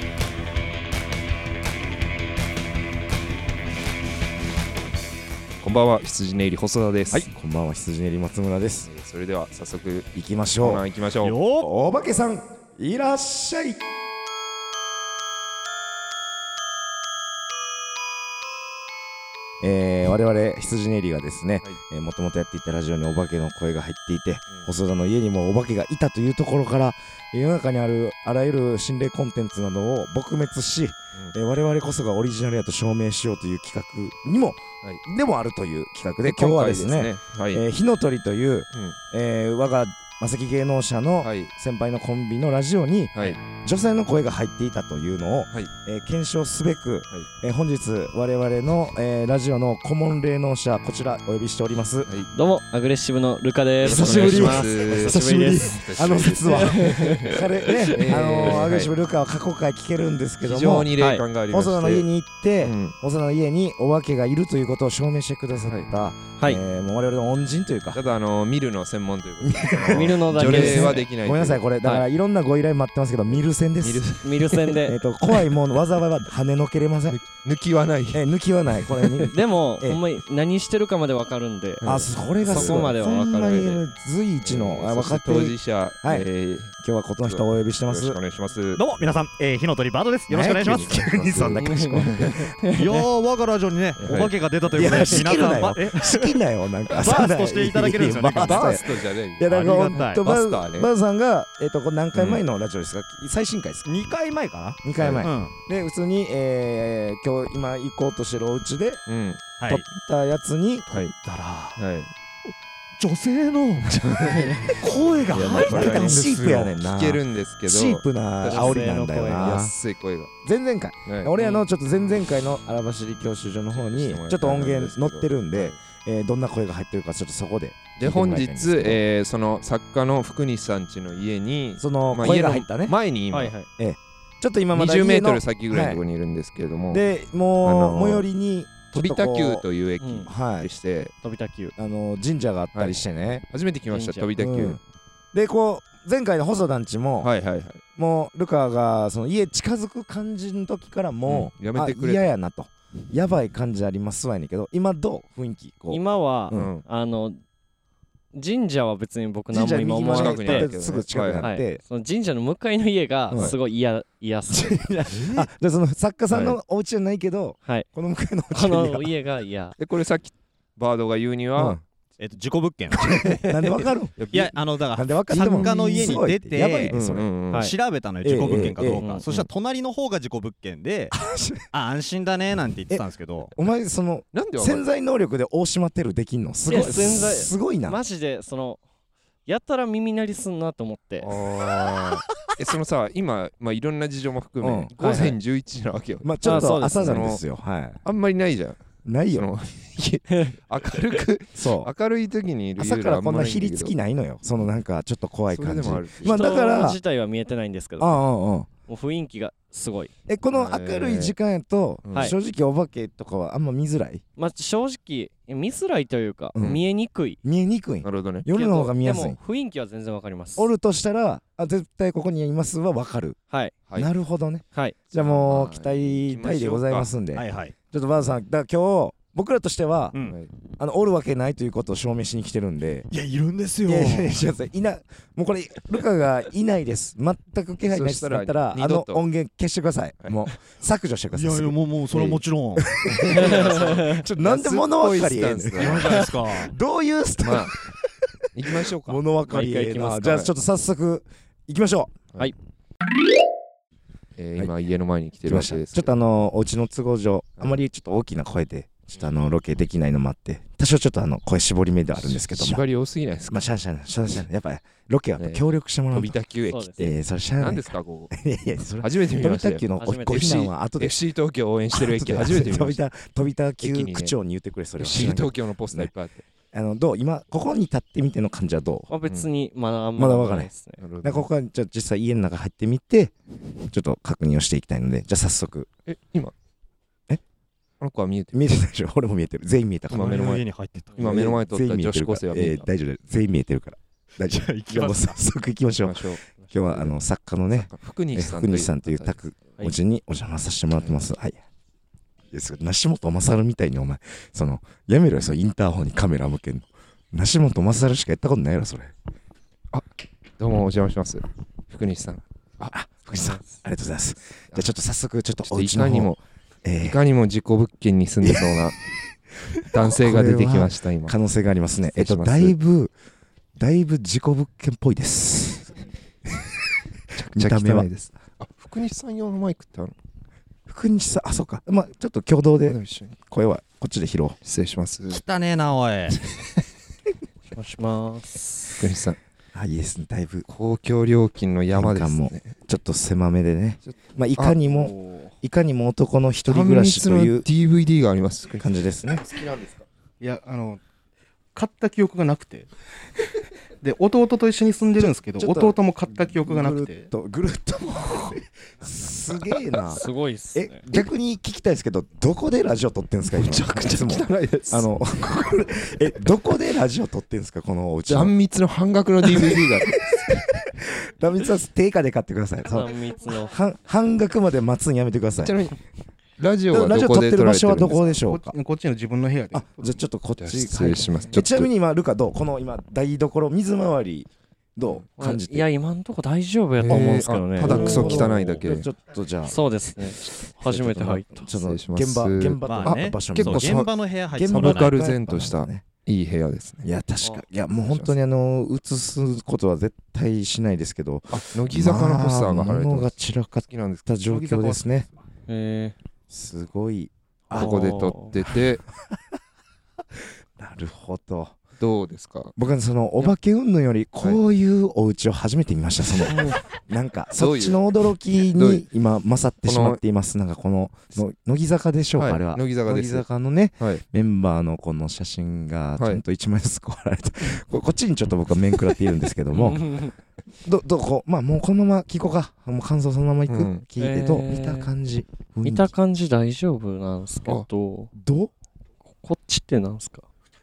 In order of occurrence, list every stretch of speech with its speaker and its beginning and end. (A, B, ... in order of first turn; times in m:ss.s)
0:05.6-0:07.3 A
0:07.1-0:08.9 B
0:08.9-0:11.4 A
0:10.1-0:10.8 B
0:11.2-0:11.7 C
0:11.5-0:13.8 B
0:19.6-0:52.1 B
0:36.2-0:37.6 A
0:41.2-0:41.5 A
0:52.3-0:55.9 D
0:53.8-1:00.9 B
0:53.8-0:58.9 A
0:56.4-0:58.6 D
1:00.4-1:02.1 A
1:01.0-1:01.2 D
1:01.5-1:08.0 B
1:02.6-1:03.0 A
1:07.9-1:11.6 A
1:09.4-1:14.0 B
1:09.9-1:11.0 D
1:13.8-1:14.8 A
1:14.2-1:15.0 D
1:14.8-1:17.2 B
1:17.1-1:18.2 A
1:18.1-1:20.0 B
1:19.3-1:21.8 D
1:21.8-1:23.8 A
1:21.8-1:26.2 B
1:22.4-1:23.8 D
1:24.4-1:28.8 A
1:26.8-1:28.2 B
1:28.7-1:31.8 C
1:30.3-1:32.4 B
1:30.9-1:32.3 A
1:31.6-1:33.0 D
1:32.6-1:36.3 C
1:34.0-1:34.3 A
1:34.7-1:44.0 B
1:35.0-1:35.2 A
1:36.9-1:38.8 C
1:38.3-1:39.4 A
1:39.5-1:40.2 C
1:40.2-1:40.9 A
1:42.1-1:42.4 A
1:43.8-1:45.5 C
1:44.8-1:49.0 B
1:45.0-1:45.2 A
1:49.1-1:49.4 A
1:49.6-1:49.8 C
1:49.7-1:50.9 B
1:50.9-1:51.1 A
1:51.2-1:51.8 C
1:51.8-1:52.1 A
1:53.0-1:56.3 C
1:53.8-1:54.7 A
1:54.8-1:59.7 B
1:55.3-2:00.3 A
1:58.4-1:59.6 D
2:00.4-2:09.0 B
2:01.0-2:01.6 A
2:03.7-2:05.8 A
2:08.0-2:13.6 A
2:11.8-2:13.0 B
2:13.3-2:13.7 D
2:13.8-2:16.0 B
2:14.7-2:17.0 A
2:16.9-2:19.6 B
2:17.6-2:18.2 A
2:18.9-2:21.1 A
2:20.0-2:20.3 D
2:20.2-2:20.7 B
2:21.2-2:21.7 D
2:21.8-2:23.4 B
2:22.7-2:24.8 A
2:23.9-2:24.3 D
2:24.4-2:24.8 B
2:25.3-2:27.3 B
2:27.2-2:27.8 A
2:28.0-2:36.7 B
2:31.2-2:32.3 A
2:35.9-2:37.4 D
2:36.5-2:36.8 A
2:38.3-2:40.7 D
2:39.5-2:41.8 B
2:40.1-2:41.4 A
2:41.4-2:44.8 D
2:43.3-2:43.5 B
2:44.5-2:49.1 B
2:46.3-2:46.6 A
2:48.5-2:49.8 D
2:49.8-2:51.8 A
2:51.6-2:51.8 B
2:52.2-2:53.8 C
2:53.0-2:54.4 B
2:54.2-2:54.5 A
2:54.3-2:56.9 C
2:54.9-2:57.3 B
2:55.4-2:55.7 A
2:56.9-2:57.7 A
2:57.5-3:01.2 C
2:58.2-2:59.0 B
2:59.0-2:59.3 D
3:01.1-3:01.6 B
3:01.7-3:03.5 C
3:02.9-3:08.0 B
3:04.3-3:04.8 A
3:06.6-3:08.8 D
3:09.4-3:11.3 D
3:11.2-3:17.4 A
3:14.6-3:15.3 B
3:15.0-3:15.3 D
3:16.2-3:18.0 B
3:16.4-3:17.2 D
3:18.0-3:18.8 A
3:19.0-3:19.5 B
3:19.3-3:23.9 A
3:20.3-3:20.5 D
3:21.5-3:21.9 B
3:22.8-3:27.0 B
3:25.5-3:26.6 A
3:26.2-3:28.2 D
3:28.0-3:28.7 B
3:28.9-3:30.1 D
3:30.3-3:34.2 B
3:30.5-3:31.4 A
3:32.0-3:32.3 A
3:34.4-3:37.4 D
3:36.5-3:36.8 B
3:37.4-3:39.4 B
3:38.0-3:38.5 A
3:38.5-3:40.7 D
3:40.6-3:43.4 B
3:44.0-3:50.2 B
3:45.1-3:47.1 A
3:47.4-3:47.7 C
3:50.2-3:50.5 A
3:50.8-3:53.1 B
3:53.1-3:54.4 C
3:53.8-4:07.8 B
3:57.8-3:59.2 A
4:01.3-4:03.0 C
4:03.1-4:06.3 A
4:03.3-4:04.2 D
4:05.8-4:06.7 C
4:07.4-4:07.8 A
4:08.5-4:09.2 A
4:09.0-4:12.2 B
4:09.5-4:10.3 D
4:10.2-4:10.5 A
4:14.4-4:16.2 A
4:15.4-4:22.8 B
4:22.2-4:23.7 A
4:23.5-4:26.3 B
4:25.4-4:28.3 A
4:26.7-4:27.1 D
4:27.0-4:31.2 B
4:29.0-4:33.0 A
4:30.0-4:30.7 D
4:31.9-4:36.1 B
4:33.8-4:34.3 A
4:35.0-4:36.5 A
4:36.7-4:39.1 B
4:39.1-4:41.0 D
4:40.2-4:40.7 B
4:41.0-4:41.5 A
4:41.2-4:45.9 B
4:46.1-4:46.5 A
4:48.0-4:48.7 A
4:48.5-4:50.6 B
4:50.1-4:50.6 A
4:50.1-4:51.2 C
4:51.1-4:52.8 A
4:51.2-5:01.6 B
4:54.4-4:55.4 C
4:56.0-4:57.1 A
4:57.7-4:59.4 A
5:02.5-5:09.1 B
5:10.6-5:12.9 A
5:12.9-5:16.3 B
5:15.6-5:16.4 A
5:16.8-5:17.2 B
5:17.0-5:19.0 A
5:18.4-5:18.8 B
5:19.8-5:21.3 A
5:19.9-5:23.1 B
5:22.1-5:22.7 A
5:23.8-5:25.9 B
5:27.3-5:30.1 A
5:27.5-5:28.1 B
5:30.9-5:34.6 B
5:32.9-5:33.4 A
5:34.6-5:35.4 A
5:35.3-5:36.4 C
5:37.7-5:39.0 D
5:39.0-5:39.4 A
5:39.7-5:40.6 B
5:40.7-5:42.7 A
5:41.9-5:47.7 B
5:44.1-5:44.8 A
5:46.7-5:48.9 A
5:48.8-5:49.5 B
5:49.4-5:51.0 E
5:51.7-5:52.9 E
5:54.0-5:57.3 E
5:55.2-6:00.2 B
6:00.0-6:01.0 D
6:00.7-6:08.5 B
6:03.5-6:06.0 A
6:08.3-6:10.3 A
6:09.4-6:15.8 B
6:12.8-6:13.7 D
6:15.6-6:16.0 A
6:16.6-6:18.2 A
6:16.9-6:18.8 B
6:18.2-6:20.2 E
6:19.7-6:25.9 B
6:20.6-6:21.9 A
6:25.4-6:28.5 D
6:27.0-6:29.1 A
6:27.1-6:29.8 B
6:29.7-6:31.7 D
6:30.8-6:36.0 B
6:31.6-6:34.1 A
6:32.8-6:35.1 C
6:34.7-6:37.1 A
6:37.0-6:45.3 B
6:38.1-6:38.3 A
6:41.5-6:44.3 A
6:44.5-6:45.0 E
6:45.7-6:46.2 D
6:46.5-6:48.0 B
6:47.7-6:49.0 A
6:47.7-6:48.5 D
6:50.8-6:51.8 B
6:52.0-6:52.7 A
6:52.8-7:10.2 B
6:57.6-6:58.0 A
6:58.6-6:59.0 A
6:59.8-7:00.2 A
7:02.4-7:03.4 A
7:09.7-7:10.3 D
7:10.8-7:16.1 B
7:13.7-7:14.0 A
7:14.2-7:15.1 D
7:15.8-7:18.3 D
7:18.3-7:18.7 B
7:19.4-7:20.4 D